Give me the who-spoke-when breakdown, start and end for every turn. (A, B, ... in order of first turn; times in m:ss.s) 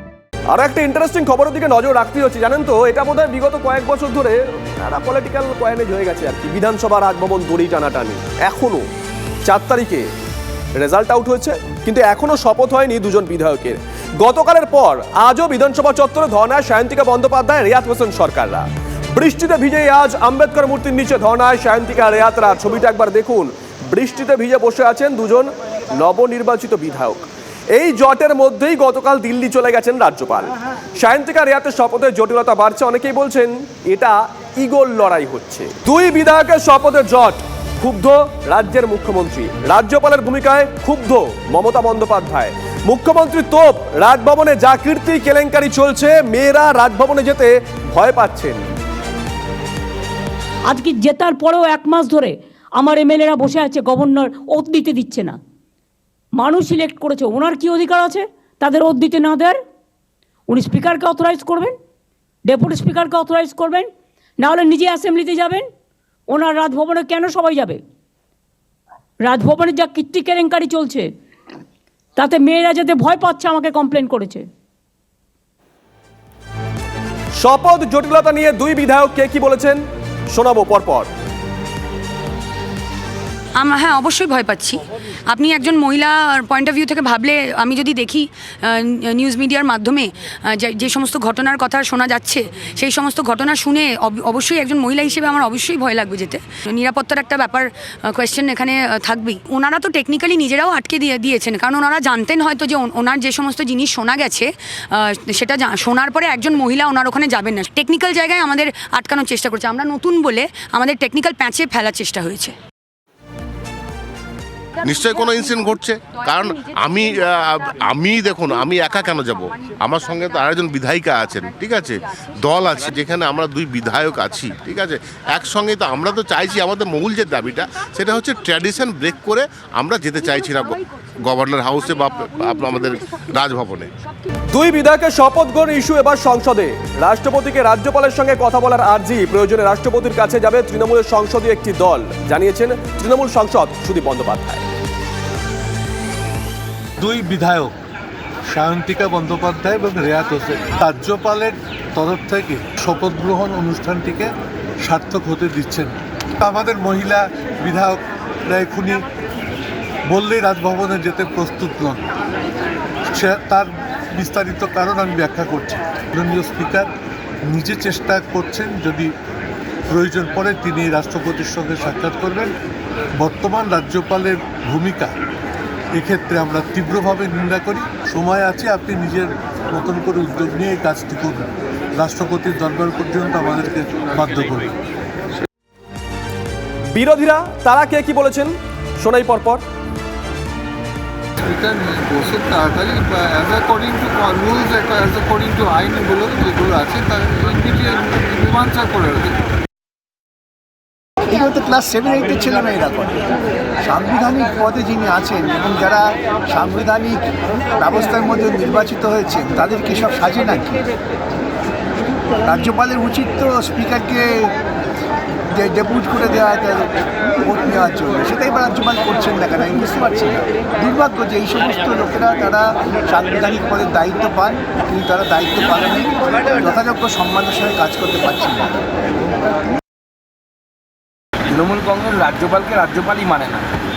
0:00.5-0:08.8 A
0:09.5-0:10.0 A
0:10.8-0:27.2 A
0:27.8-0:48.6 A
0:50.7-0:55.4 B
0:56.4-0:59.6 B
1:00.5-1:01.8 B
1:02.4-1:05.7 B
1:06.3-1:07.8 B
1:09.2-1:11.1 B
1:12.2-1:14.4 B
1:17.4-1:19.8 A
1:20.3-1:21.1 A
1:23.6-1:52.6 C
1:54.8-2:13.9 D
2:14.5-2:24.6 A
2:27.0-2:27.8 E
2:28.5-2:34.3 E
2:34.8-2:39.0 E
2:40.1-2:42.0 E
2:43.1-2:46.9 E
2:47.5-2:49.1 E
2:49.9-2:52.5 E
2:53.2-2:55.1 E
2:55.9-3:04.7 E
3:07.0-3:09.6 A
3:11.4-3:19.4 F
3:21.3-3:23.3 G
3:23.8-3:27.2 G
3:27.8-3:30.8 G
3:32.4-3:34.5 G
3:35.5-3:48.8 G
3:51.5-3:53.7 H